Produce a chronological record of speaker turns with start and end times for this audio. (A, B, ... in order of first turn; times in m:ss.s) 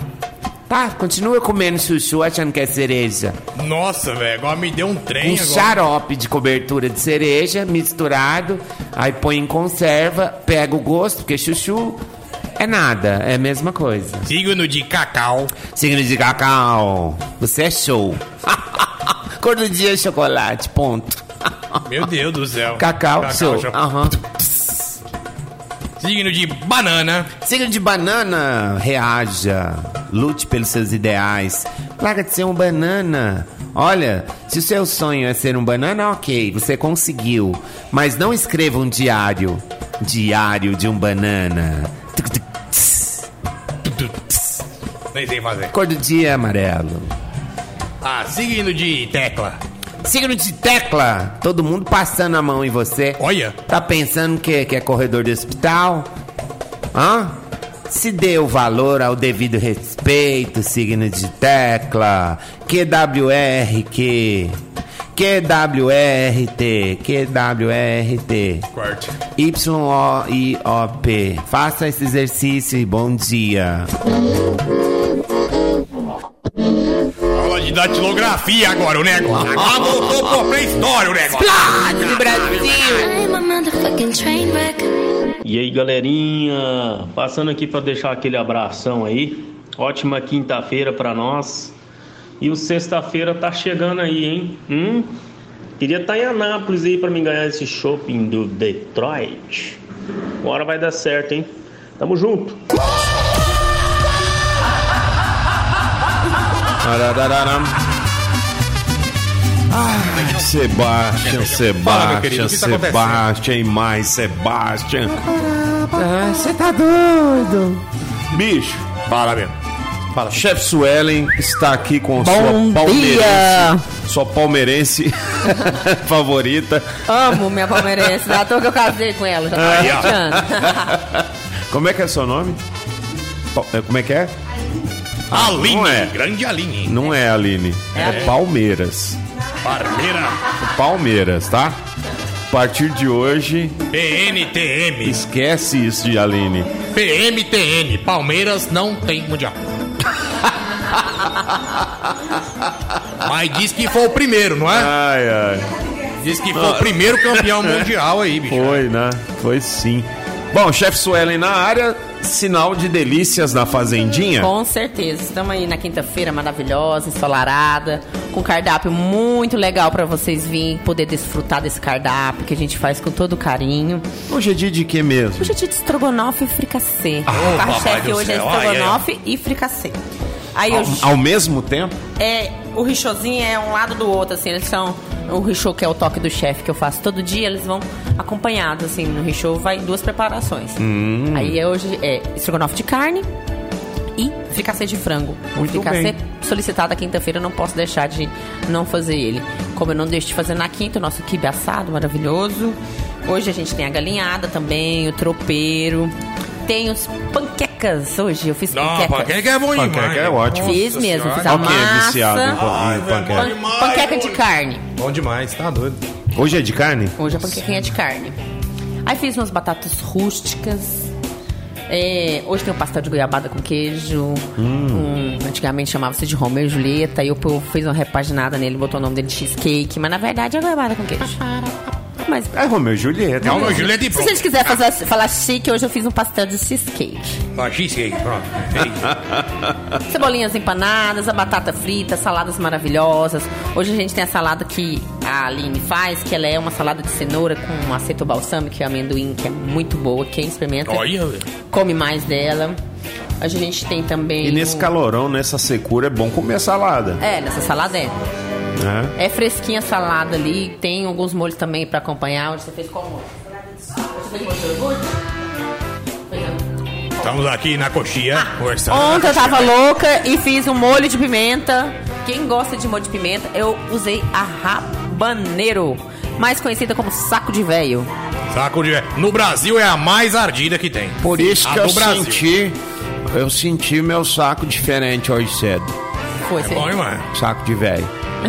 0:00.7-0:03.4 A
0:03.6-0:05.8 B
0:05.2-0:12.0 A
0:12.6-0:14.3 A
0:14.2-0:15.5 B
0:15.6-0:21.8 A
0:21.8-0:23.8 B
0:22.7-0:24.2 A
0:24.4-0:24.8 B
0:26.0-0:27.3 B
0:27.4-0:43.2 A
0:43.8-0:45.7 B
0:45.7-0:47.1 A
0:48.0-0:49.6 B
0:50.0-0:56.1 A
0:53.2-0:53.6 B
0:56.9-1:04.6 A
1:05.1-1:08.7 A
1:08.7-1:09.1 B
1:09.4-1:13.9 A
1:17.3-1:22.6 B
1:21.3-1:23.2 A
1:22.9-1:24.9 C
1:25.4-1:31.8 D
1:32.4-1:35.2 D
1:35.8-1:39.8 D
1:40.4-1:42.6 D
1:46.8-1:47.8 E
1:49.7-1:55.9 E
1:50.1-1:50.4 B
1:51.2-1:53.2 B
1:55.9-1:57.8 A
1:58.3-1:58.8 E
1:59.1-1:59.5 B
2:00.1-2:00.5 B
2:00.3-2:07.0 E
2:02.2-2:03.8 F
2:07.1-2:11.0 F
2:09.5-2:12.6 E
2:09.6-2:10.1 B
2:13.5-2:14.3 E
2:15.3-2:17.0 B
2:15.3-2:16.1 E
2:16.8-2:19.2 E
2:17.9-2:18.3 B
2:19.6-2:20.4 B
2:20.6-2:21.8 E
2:22.5-2:23.8 E
2:23.9-2:25.2 B
2:25.0-2:26.7 E
2:26.9-2:29.6 B
2:33.2-2:34.9 B
2:34.7-2:35.7 E
2:36.2-2:38.8 B
2:36.6-2:37.7 E
2:38.5-2:44.5 E
2:44.4-2:54.1 F
2:54.3-2:55.6 E
2:55.4-3:00.0 F
2:57.3-2:59.0 B
3:00.5-3:01.1 F
3:00.7-3:02.0 E
3:02.2-3:10.8 F
3:10.8-3:11.6 E
3:11.3-3:13.2 F
3:14.2-3:26.1 F
3:15.6-3:16.1 E
3:26.6-3:29.3 F
3:28.7-3:31.8 B
3:29.7-3:30.8 E
3:30.5-3:32.6 F
3:31.4-3:33.6 E
3:32.5-3:34.4 B
3:33.3-3:34.8 F
3:35.0-3:36.0 B
3:36.3-3:37.2 E
3:37.2-3:38.3 F
3:39.0-3:41.1 F
3:41.9-3:52.5 F
3:44.6-3:45.1 E
3:52.5-3:53.9 E
3:53.4-3:54.8 B
3:53.4-3:57.4 F
3:57.5-3:59.1 B
4:00.0-4:11.1 F
4:10.8-4:11.5 B
4:11.7-4:12.8 F
4:13.4-4:14.9 F
4:14.4-4:17.2 E
4:17.2-4:18.2 F
4:18.8-4:19.1 E
4:19.2-4:23.3 F
4:24.0-4:25.1 F
4:26.3-4:26.6 F
4:27.2-4:29.7 B
4:28.9-4:38.1 F
4:38.5-4:42.4 B
4:41.2-4:42.8 A
4:43.3-4:45.9 A
4:46.4-4:46.9 F
4:46.6-4:47.3 B
4:47.3-4:48.1 A